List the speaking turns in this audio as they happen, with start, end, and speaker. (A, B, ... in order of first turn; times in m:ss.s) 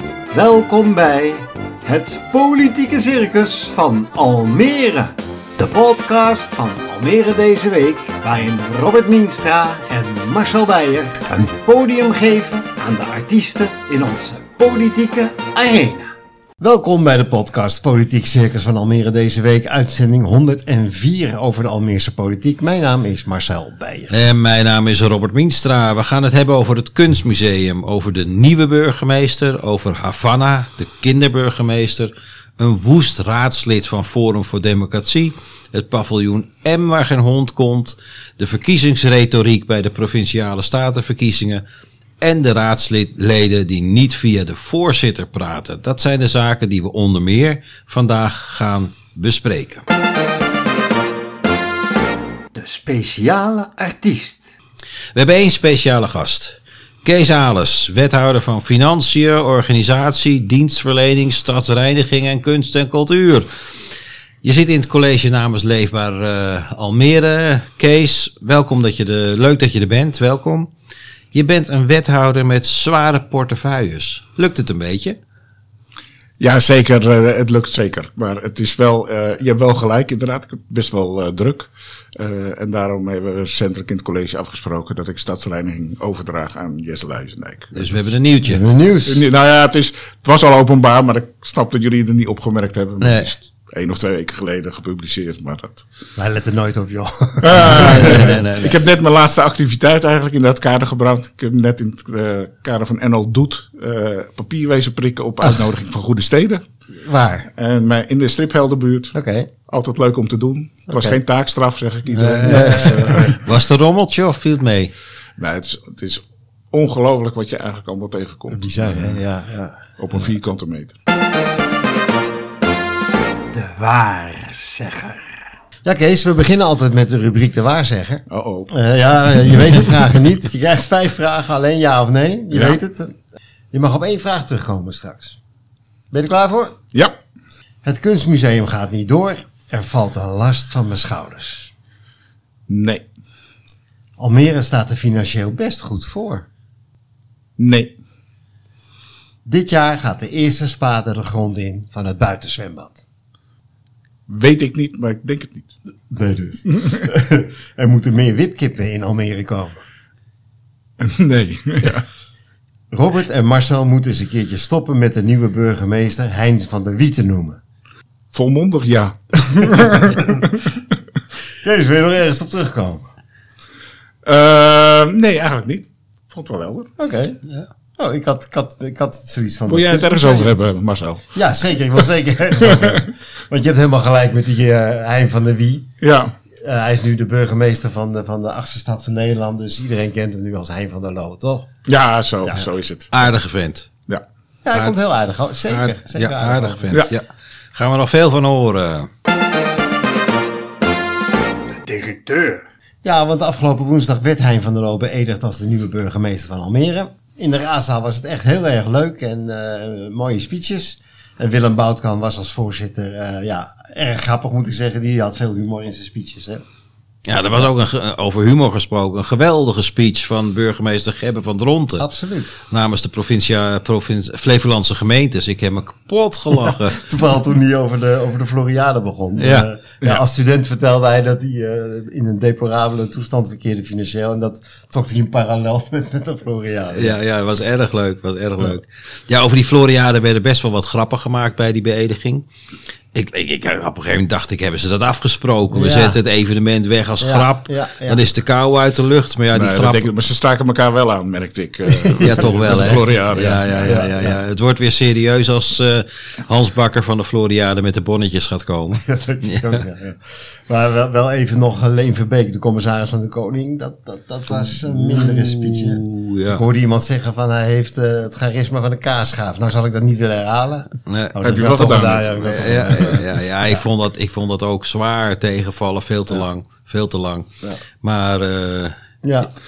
0:00.3-0:16.1 A
0:16.6-0:24.1 A
0:24.1-0:41.6 B
0:42.2-0:49.8 B
0:52.5-0:54.5 A
0:55.2-1:03.5 B
1:04.4-1:10.7 B
1:11.3-1:15.2 B
1:16.4-1:27.8 C
1:27.7-1:28.6 B
1:28.5-1:29.2 A
1:29.1-1:35.8 C
1:33.0-1:33.3 B
1:36.2-1:38.5 A
1:37.4-1:46.6 C
1:37.5-1:38.7 B
1:47.0-1:47.5 A
1:47.6-1:49.2 C
1:49.1-1:49.5 A
1:49.7-1:53.4 C
1:50.9-1:51.2 A
1:52.1-1:54.9 B
1:52.4-1:53.4 A
1:55.4-1:59.2 C
1:58.5-1:59.8 A
2:00.0-2:01.0 C
2:03.5-2:13.2 A
2:08.3-2:08.7 C
2:09.5-2:09.9 C
2:12.5-2:12.8 C
2:13.7-2:15.4 A
2:16.1-2:16.8 A
2:16.9-2:17.2 C
2:17.8-2:21.7 A
2:22.7-2:23.1 C
2:24.2-2:26.5 A
2:27.6-2:28.0 C
2:29.5-2:33.0 A
2:34.3-2:35.7 C
2:36.1-2:39.8 A
2:41.0-2:42.1 C
2:42.9-2:47.6 A
2:48.3-2:50.6 C
2:49.5-2:50.5 A
2:51.6-2:53.0 A
2:54.2-2:56.9 C
2:57.0-2:57.4 A
2:58.0-3:00.5 A
2:59.7-3:01.3 C
3:01.3-3:05.9 A
3:02.6-3:03.1 C
3:06.0-3:06.4 C
3:06.6-3:11.7 A
3:11.9-3:13.1 C
3:13.1-3:13.9 B
3:14.6-3:16.9 A
3:15.7-3:19.1 B
3:21.7-3:36.6 A
3:37.3-3:42.1 B
3:42.0-3:42.6 A
3:42.7-3:47.0 B
3:46.7-3:57.2 A
3:49.4-3:49.7 B
3:56.9-4:02.5 B
4:03.1-4:10.1 B
4:05.7-4:06.2 A
4:07.2-4:08.2 A
4:09.5-4:14.0 C
4:11.9-4:13.0 A
4:12.2-4:19.8 B
4:13.8-4:14.4 A
4:19.0-4:33.8 A
4:24.5-4:26.6 B
4:31.1-4:31.7 B
4:31.4-4:33.2 C
4:32.4-4:37.5 B
4:38.0-4:39.0 B
4:39.2-4:39.5 A